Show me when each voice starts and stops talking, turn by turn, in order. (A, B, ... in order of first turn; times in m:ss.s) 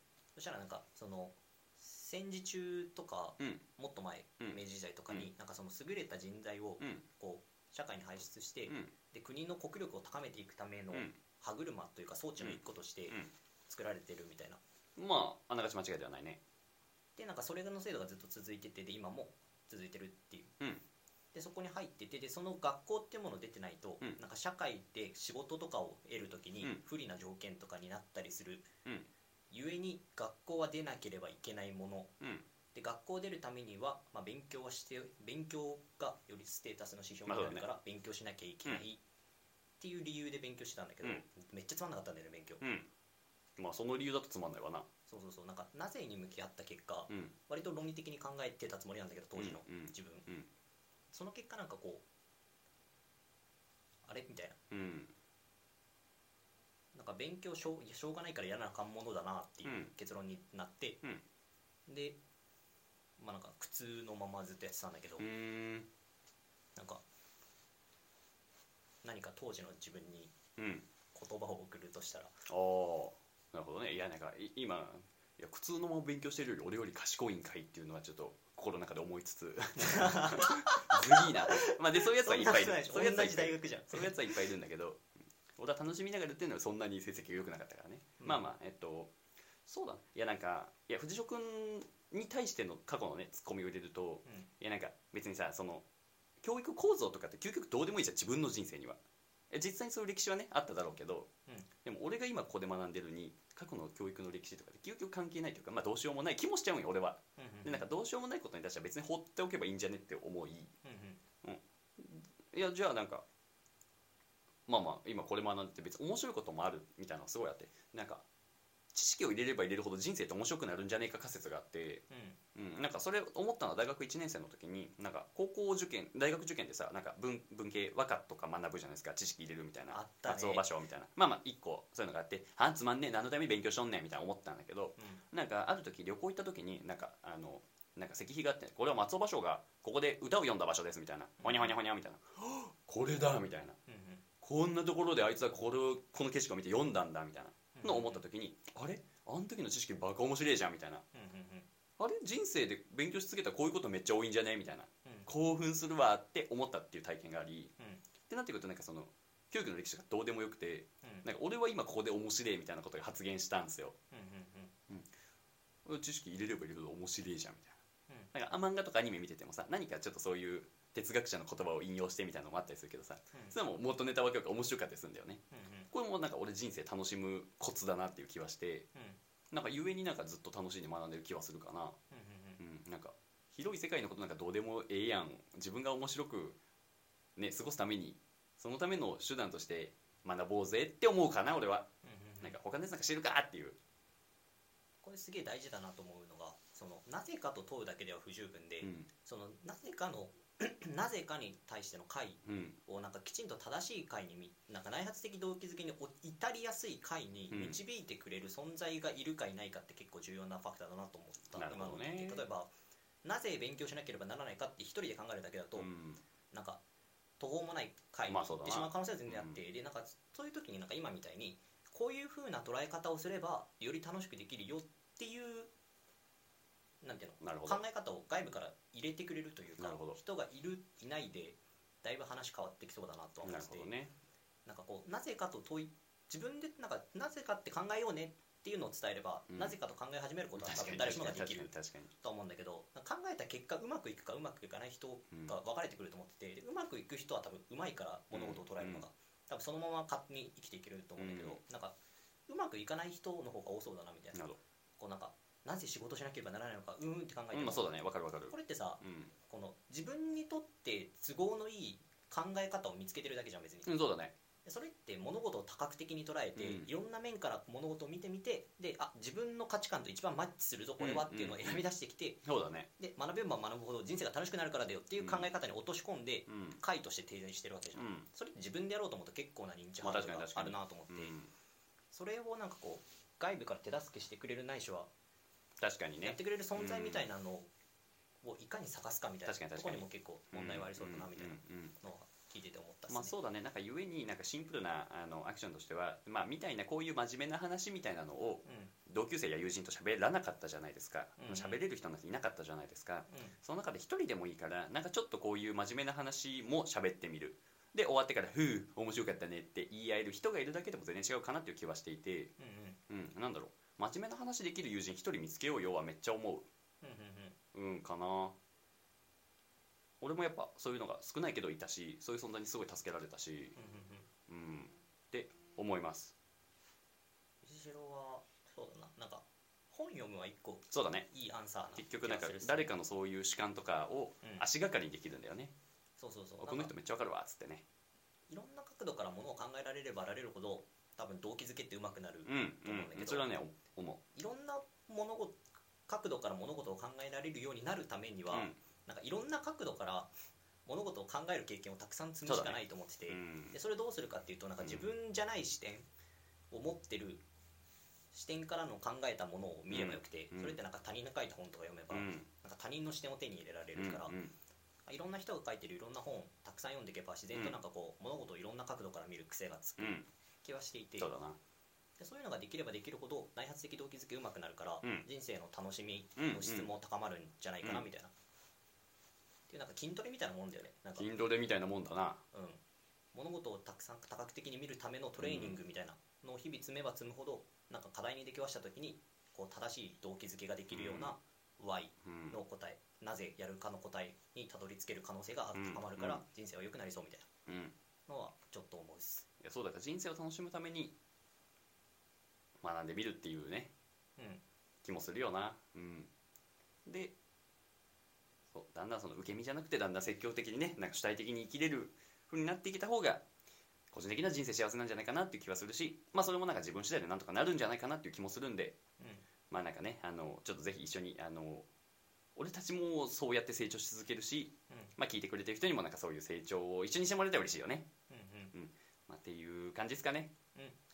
0:00.4-0:14.6 A
0:04.4-0:05.3 B
0:08.7-0:08.9 B
0:10.9-0:11.2 B
0:12.4-0:13.3 B
0:15.0-0:16.4 B
0:17.2-0:20.5 A
0:21.3-0:28.7 A
0:29.5-0:32.1 A
0:32.7-0:39.0 A
0:37.3-0:37.6 B
0:39.8-0:42.6 A
0:42.6-0:42.9 B
0:43.6-0:44.9 B
0:45.1-0:50.3 A
0:49.4-0:50.5 B
0:51.1-0:52.0 A
0:54.0-0:54.6 A
0:54.7-0:55.1 B
0:56.9-1:01.0 A
0:59.6-0:59.9 B
1:01.9-1:02.2 A
1:03.2-1:05.2 A
1:05.2-1:05.9 B
1:06.8-1:07.0 A
1:09.0-1:10.3 A
1:10.6-1:10.8 B
1:11.1-1:12.3 A
1:12.5-1:29.1 B
1:19.8-1:24.5 A
1:29.6-1:35.8 B
1:36.4-1:39.0 B
1:39.5-1:41.3 B
1:41.8-1:50.7 B
1:47.4-1:47.9 A
1:50.8-1:51.2 A
1:51.4-1:53.2 B
1:54.7-1:58.2 B
1:58.9-2:02.0 B
2:02.1-2:02.4 A
2:02.5-2:23.8 B
2:09.9-2:10.7 A
2:15.0-2:15.2 A
2:21.4-2:21.7 A
2:23.9-2:24.2 A
2:24.4-2:31.0 B
2:27.7-2:28.2 A
2:31.1-2:31.7 A
2:32.0-2:37.7 B
2:38.3-2:44.0 B
2:44.1-2:44.7 A
2:45.8-2:47.8 B
2:48.3-2:58.9 B
2:55.5-2:55.9 A
2:59.5-3:02.0 B
3:02.1-3:02.6 A
3:02.6-3:06.6 B
3:07.4-3:11.9 B
3:12.0-3:12.6 A
3:12.4-3:13.8 B
3:15.0-3:32.7 A
3:18.8-3:19.1 B
3:22.4-3:22.8 B
3:27.5-3:27.8 B
3:31.5-3:32.4 B
3:33.2-3:35.9 A
3:35.8-3:36.2 B
3:36.5-3:36.8 A
3:37.4-3:45.7 A
3:38.3-3:39.6 B
3:47.0-3:53.9 A
3:47.4-3:47.8 B
3:49.8-3:50.2 B
3:53.4-3:54.1 B
3:54.6-4:12.0 A
3:59.5-3:59.8 B
4:00.6-4:02.1 B
4:08.3-4:09.0 B
4:11.2-4:11.6 B
4:12.5-4:14.4 A
4:14.3-4:14.6 B
4:15.0-4:17.9 A
4:17.5-4:19.3 B
4:18.5-4:23.9 A
4:23.8-4:24.3 B
4:24.6-4:32.4 A
4:26.6-4:26.9 B
4:31.0-4:31.8 B
4:32.4-4:32.9 B
4:33.0-4:41.4 A
4:35.2-4:35.5 B
4:36.5-4:36.8 B
4:38.0-4:38.3 B
4:40.0-4:41.5 B
4:42.1-4:45.1 A
4:45.8-4:47.3 B
4:46.2-4:47.7 A
4:48.4-4:53.3 A
4:49.4-4:51.9 B
4:53.1-5:12.5 B
4:58.6-4:58.9 A
5:01.4-5:01.8 A
5:03.3-5:03.6 A
5:12.6-5:13.0 A
5:13.1-5:16.7 B
5:17.0-5:17.6 A
5:17.7-5:18.6 B
5:20.2-5:23.8 B
5:23.8-5:24.3 A
5:24.5-5:26.3 B
5:27.6-5:32.9 A
5:30.9-5:31.3 B
5:32.0-5:35.7 B
5:36.2-5:36.9 A
5:36.6-5:37.8 B
5:38.5-5:43.4 A
5:42.4-5:44.2 B
5:44.3-5:50.3 A
5:48.5-5:48.8 B
5:50.8-5:56.1 A
5:52.4-5:53.8 B
5:54.8-5:55.1 B
5:56.7-5:57.4 A
5:58.3-6:04.3 A
5:59.9-6:00.8 B
6:02.1-6:02.5 B
6:04.0-6:04.5 B
6:05.1-6:11.3 A
6:10.0-6:10.3 B
6:11.2-6:11.6 B
6:12.2-6:18.3 A
6:15.0-6:15.3 B
6:16.4-6:16.9 B
6:19.7-6:21.3 A
6:21.2-6:22.4 B
6:22.5-6:22.8 A
6:23.3-6:37.5 A
6:25.4-6:25.8 B
6:30.9-6:31.3 B
6:32.2-6:32.6 B
6:35.7-6:36.4 B
6:37.6-6:37.9 B
6:38.3-6:39.4 A
6:39.6-6:41.1 B
6:42.8-6:43.9 B
6:45.0-6:46.3 B
6:47.0-6:47.3 B
6:48.7-6:53.4 B
6:54.1-6:59.0 B
6:59.2-6:59.4 A
6:59.7-7:01.9 B
7:02.6-7:08.1 B
7:04.9-7:05.1 A
7:08.3-7:08.7 A
7:08.7-7:10.5 B